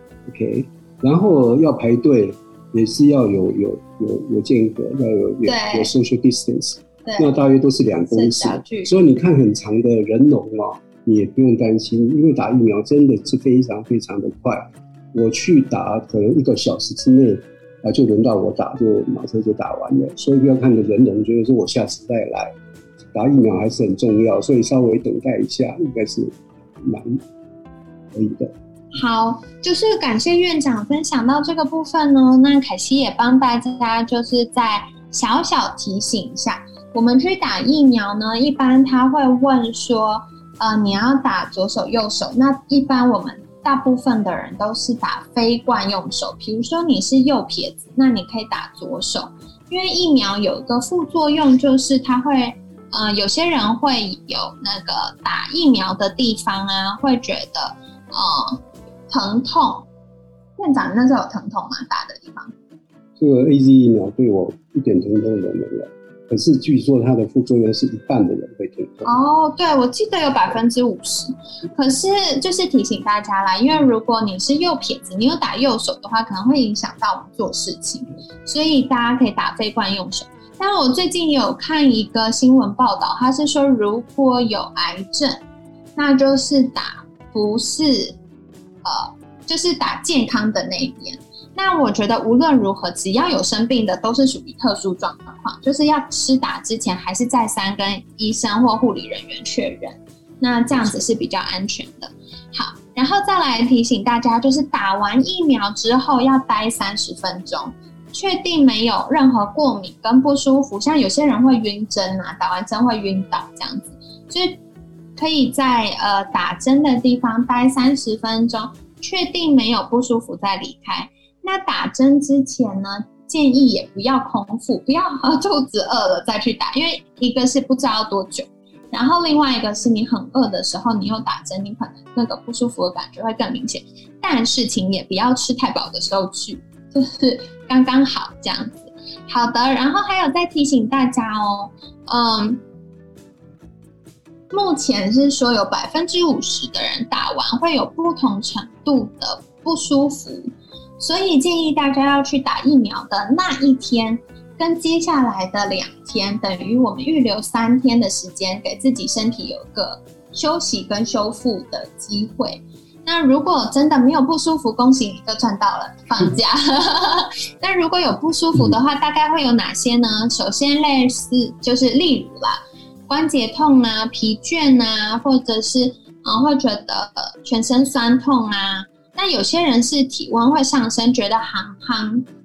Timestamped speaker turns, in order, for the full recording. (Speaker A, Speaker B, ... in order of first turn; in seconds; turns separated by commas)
Speaker A: 0.2-22.5, Speaker B: 5.4-5.9, Speaker B: 7.0-7.4, Speaker B: 8.0-8.9, Speaker A: 23.1-27.2, Speaker A: 28.1-28.5, Speaker B: 28.9-59.9, Speaker B: 60.6-62.5, Speaker A: 63.2-69.1, Speaker B: 69.0-85.4, Speaker B: 86.0-88.2, Speaker B: 88.8-114.6, Speaker A: 100.7-101.1, Speaker B: 115.2-142.6, Speaker B: 144.5-182.3